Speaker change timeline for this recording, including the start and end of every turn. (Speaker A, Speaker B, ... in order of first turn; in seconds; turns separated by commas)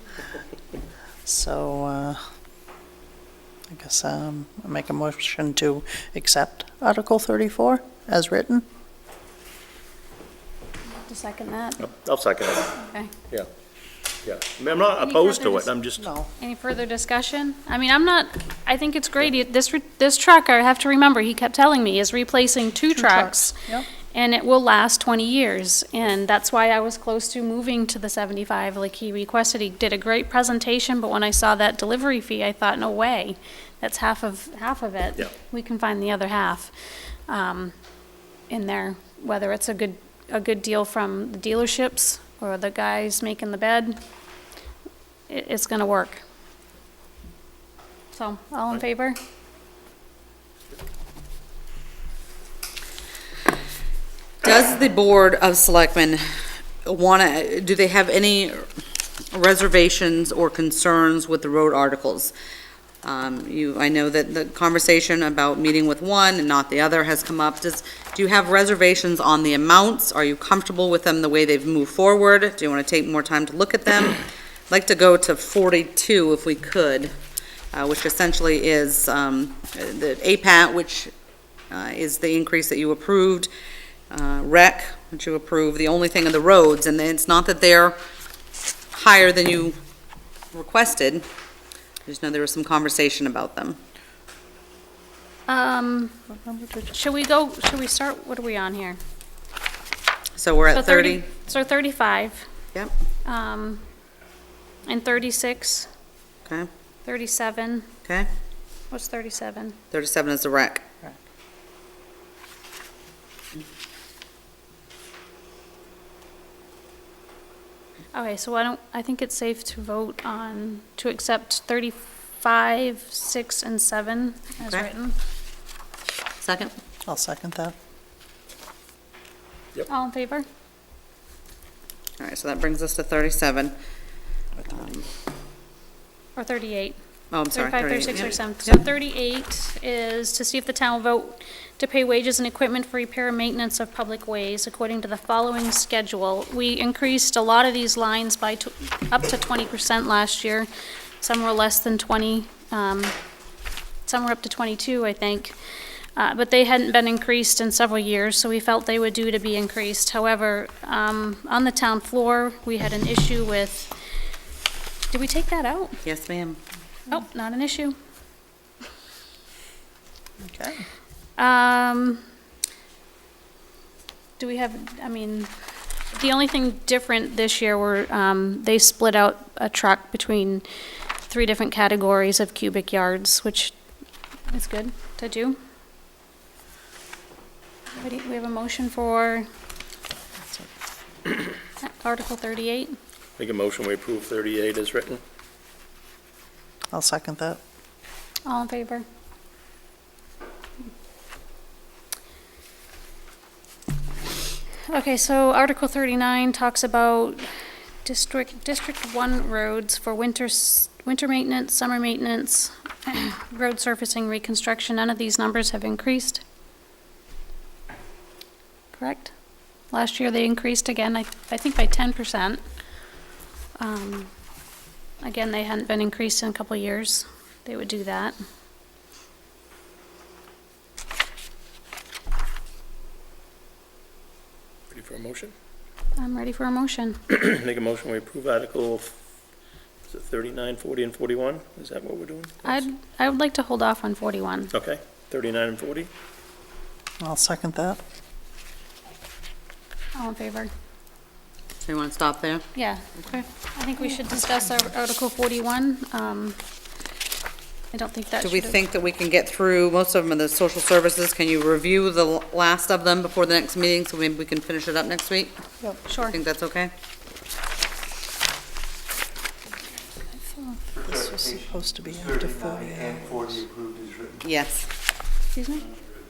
Speaker A: 1.2-2.2, Speaker A: 3.7-8.7, Speaker B: 11.0-11.9, Speaker C: 11.8-12.7, Speaker B: 12.7-13.1, Speaker C: 14.2-16.1, Speaker B: 15.0-15.7, Speaker B: 16.4-36.7, Speaker A: 22.9-23.9, Speaker B: 37.3-37.7, Speaker B: 38.5-44.0, Speaker B: 45.3-46.2, Speaker B: 48.1-49.2, Speaker D: 54.4-56.2, Speaker D: 56.8-58.6, Speaker D: 59.3-62.3, Speaker D: 63.0-77.1, Speaker D: 77.7-81.1, Speaker D: 81.7-83.5, Speaker D: 84.1-88.0, Speaker D: 88.9-89.7, Speaker D: 90.5-91.2, Speaker D: 92.0-93.8, Speaker B: 95.5-96.2, Speaker A: 96.4-96.9, Speaker B: 96.9-99.0, Speaker D: 100.3-101.3, Speaker B: 100.7-102.5, Speaker B: 103.2-103.8, Speaker B: 104.8-105.9, Speaker B: 107.0-107.9, Speaker B: 108.9-109.8, Speaker D: 109.9-111.1, Speaker B: 118.1-125.2, Speaker D: 126.4-126.7, Speaker A: 127.0-127.7, Speaker B: 129.9-130.4, Speaker D: 132.2-133.7, Speaker D: 134.7-135.0, Speaker B: 136.3-136.9, Speaker D: 137.3-138.8, Speaker B: 137.5-150.7, Speaker B: 151.2-153.2, Speaker B: 154.1-155.6, Speaker B: 156.2-163.9, Speaker B: 165.1-166.0, Speaker D: 166.0-166.6, Speaker B: 167.1-167.9, Speaker A: 170.4-170.8, Speaker B: 171.4-172.2, Speaker B: 174.4-175.5, Speaker B: 176.1-180.7, Speaker B: 181.3-183.7, Speaker B: 184.5-185.6, Speaker B: 187.9-189.4, Speaker A: 190.4-190.7, Speaker B: 191.8-193.0, Speaker C: 193.4-195.2, Speaker A: 196.9-197.6, Speaker B: 198.4-199.1, Speaker B: 204.9-207.5, Speaker B: 208.0-216.4, Speaker B: 218.9-219.3, Speaker B: 219.9-222.6, Speaker B: 223.8-224.3, Speaker B: 225.2-228.3, Speaker C: 234.9-235.5, Speaker B: 236.2-237.2, Speaker C: 237.3-239.2, Speaker C: 240.1-242.8, Speaker B: 242.6-244.7, Speaker C: 244.7-246.1, Speaker A: 247.2-248.0, Speaker B: 250.1-250.7, Speaker D: 251.8-252.7, Speaker B: 252.7-256.6, Speaker B: 257.9-258.8, Speaker D: 258.4-265.5, Speaker B: 266.1-266.4, Speaker D: 266.1-266.9, Speaker A: 270.7-273.6, Speaker E: 270.9-274.5, Speaker D: 274.4-274.8, Speaker B: 275.5-275.8